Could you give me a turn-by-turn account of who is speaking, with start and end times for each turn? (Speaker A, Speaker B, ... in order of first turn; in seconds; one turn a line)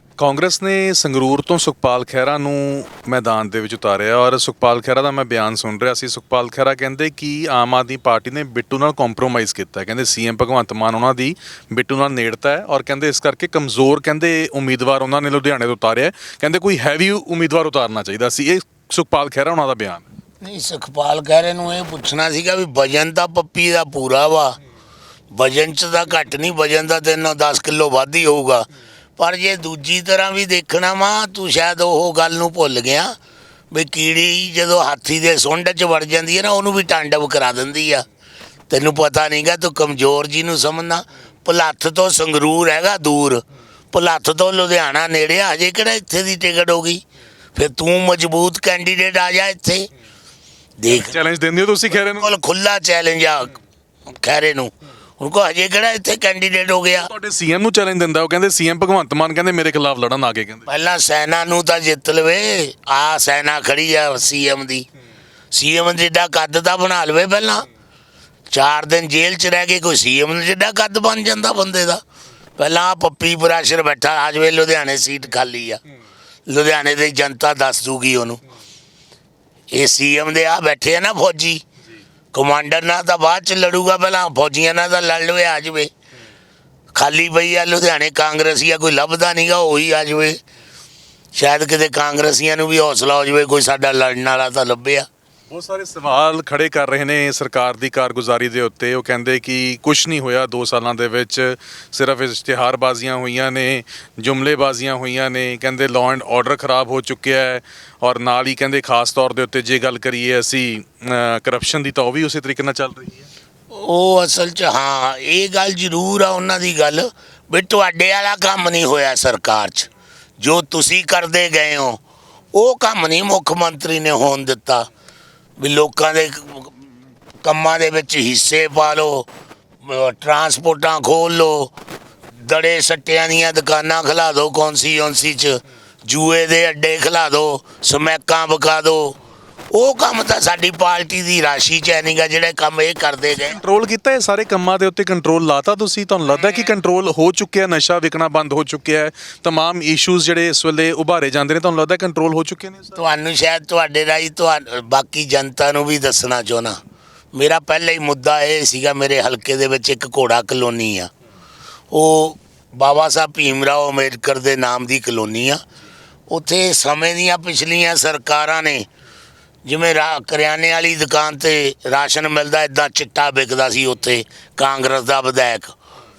Speaker A: 0.2-20.1
Speaker B: 20.4-24.6
Speaker B: 25.3-28.7
Speaker B: 29.2-33.2
Speaker B: 33.7-38.1
Speaker B: 38.7-47.0
Speaker B: 47.5-49.9
Speaker B: 50.8-51.2
Speaker A: 50.9-52.3
Speaker B: 52.2-53.5
Speaker B: 54.1-57.1
Speaker A: 57.0-60.7
Speaker B: 60.7-64.9
Speaker B: 65.5-67.7
Speaker B: 68.5-72.0
Speaker B: 72.6-75.8
Speaker B: 76.5-78.4
Speaker B: 79.7-81.6
Speaker B: 82.3-85.9
Speaker B: 87.0-90.4
Speaker B: 91.3-95.1
Speaker A: 95.5-113.3
Speaker B: 113.7-122.0
Speaker B: 122.5-124.9
Speaker B: 125.6-126.9
Speaker B: 127.4-129.3
Speaker B: 129.8-131.7
Speaker B: 132.4-139.2
Speaker B: 139.7-143.6
Speaker A: 143.4-153.0
Speaker B: 153.0-156.8
Speaker B: 157.3-161.1
Speaker B: 161.9-165.6
Speaker B: 166.3-168.9
Speaker B: 169.7-175.7